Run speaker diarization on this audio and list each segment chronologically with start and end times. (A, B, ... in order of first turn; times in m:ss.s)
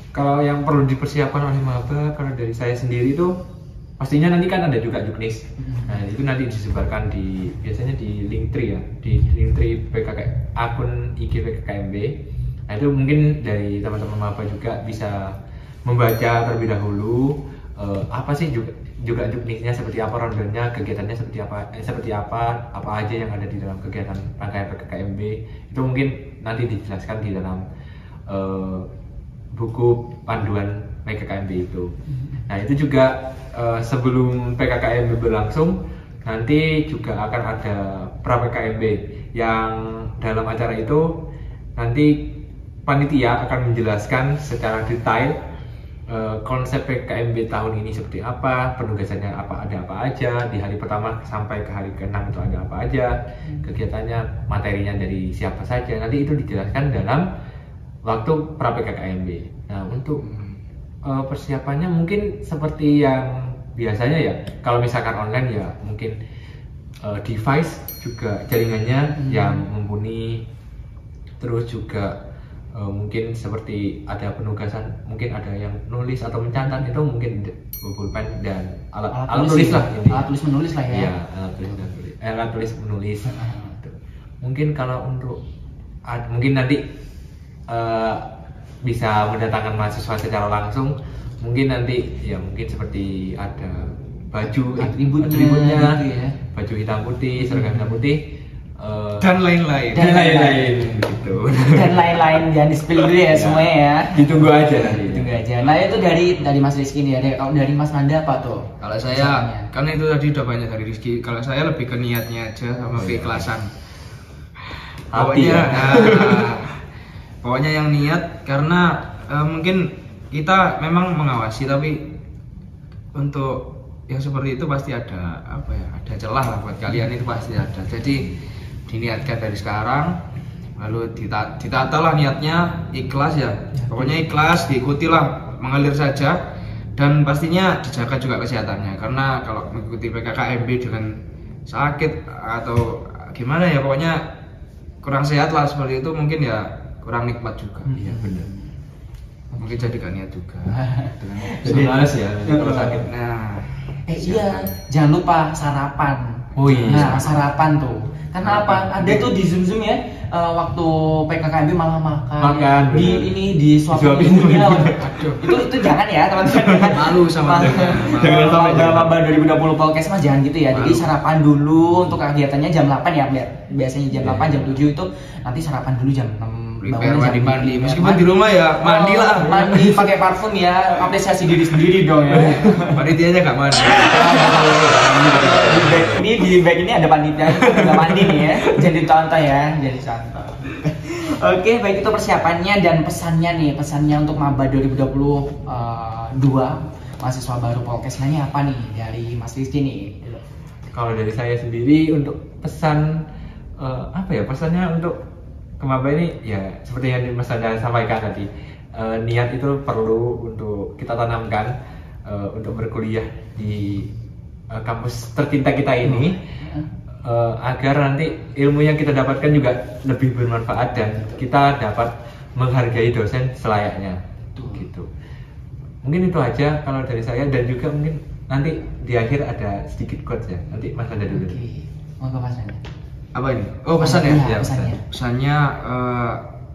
0:00.1-0:03.3 A
0:04.0-0:12.2 A
0:05.6-0:06.0 B
0:12.7-0:15.3 A
0:15.9-0:27.6 A
0:28.3-0:28.9 A
0:29.6-0:31.9 A
0:32.5-0:41.2 A
0:41.8-0:42.3 A
0:42.9-0:45.4 A
0:46.1-0:57.2 A
0:58.1-1:00.2 A
1:00.2-1:00.6 C
1:01.0-1:06.2 A
1:07.0-1:10.4 A
1:09.2-1:09.7 B
1:11.4-1:12.2 A
1:12.8-1:20.3 A
1:19.1-1:21.1 B
1:20.9-1:25.4 A
1:23.3-1:23.8 B
1:26.1-1:26.8 A
1:27.7-1:28.2 A
1:28.8-1:36.0 A
1:34.8-1:36.4 B
1:36.5-1:38.3 A
1:37.4-1:38.0 B
1:38.8-1:39.3 A
1:39.2-1:40.1 C
1:39.9-1:42.2 A
1:39.9-1:40.7 B
1:41.7-1:49.7 B
1:43.0-1:45.4 A
1:48.8-1:53.7 C
1:52.9-1:53.5 A
1:55.1-1:56.5 A
1:55.1-1:56.7 C
1:57.4-2:02.1 C
2:03.1-2:08.3 C
2:08.9-2:10.2 C
2:10.8-2:16.4 C
2:13.8-2:14.1 B
2:17.0-2:24.3 C
2:25.0-2:27.9 C
2:27.9-2:28.7 B
2:28.0-2:28.5 A
2:29.5-2:29.9 B
2:29.6-2:34.7 C
2:30.7-2:33.0 B
2:31.6-2:33.1 A
2:34.1-2:58.2 B
2:36.6-2:37.3 A
2:36.7-2:37.3 C
2:38.4-2:39.2 A
2:42.4-2:43.4 A
2:43.9-2:45.1 A
2:45.0-2:45.4 C
2:46.7-2:48.7 C
2:47.6-2:49.2 A
2:50.7-2:51.1 C
2:54.2-2:54.6 A
2:56.8-3:00.1 C
2:58.8-3:03.1 B
3:02.4-3:04.5 C
3:03.8-3:20.4 B
3:04.0-3:06.2 A
3:05.4-3:05.9 C
3:20.9-3:23.2 A
3:23.8-3:25.2 A
3:25.8-3:31.7 A
3:32.2-3:34.1 A
3:34.7-3:36.4 A
3:36.0-3:36.9 B
3:37.2-3:44.2 A
3:44.6-3:44.9 B
3:44.7-3:45.1 A
3:46.0-3:51.6 A
3:51.3-3:52.8 B
3:53.3-3:56.4 C
3:54.0-3:55.0 B
3:54.5-3:54.9 A